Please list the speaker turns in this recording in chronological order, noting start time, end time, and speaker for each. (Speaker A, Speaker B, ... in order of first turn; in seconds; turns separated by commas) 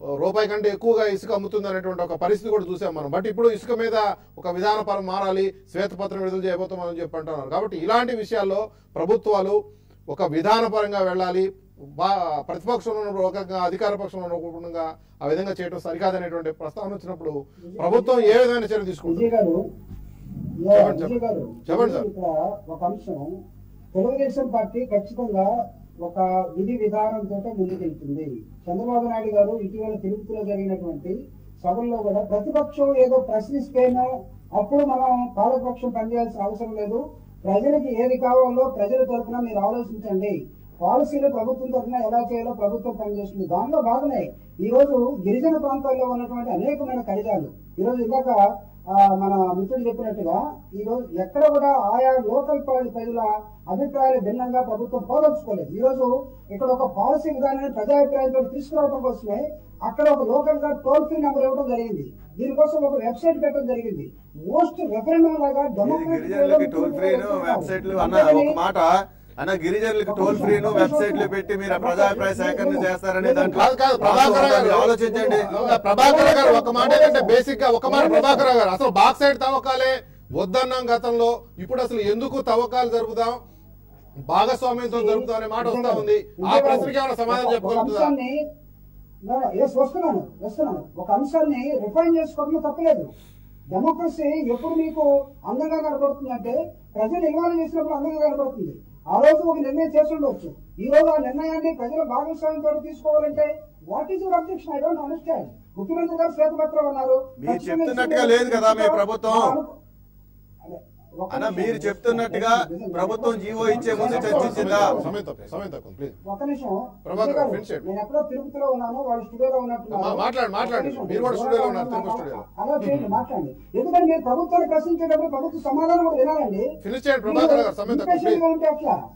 Speaker A: 0.2-9.6, Speaker A: 10.1-11.4, Speaker A: 12.0-19.3, Speaker B: 17.6-18.4, Speaker B: 19.1-19.6, Speaker B: 20.6-23.3, Speaker A: 20.7-21.1, Speaker A: 21.7-22.1, Speaker B: 23.9-25.5, Speaker B: 26.0-48.4, Speaker B: 48.9-68.6, Speaker C: 65.8-75.5, Speaker B: 70.0-78.5, Speaker A: 73.5-83.4, Speaker A: 84.3-88.1, Speaker B: 84.8-88.3, Speaker B: 89.2-93.1, Speaker B: 93.7-109.7, Speaker C: 107.4-109.6, Speaker B: 110.6-115.1, Speaker C: 111.3-115.0, Speaker A: 113.6-116.2, Speaker B: 116.2-126.7, Speaker A: 117.0-117.8, Speaker A: 119.9-122.4, Speaker C: 122.8-123.2, Speaker A: 126.8-128.4, Speaker B: 127.3-129.0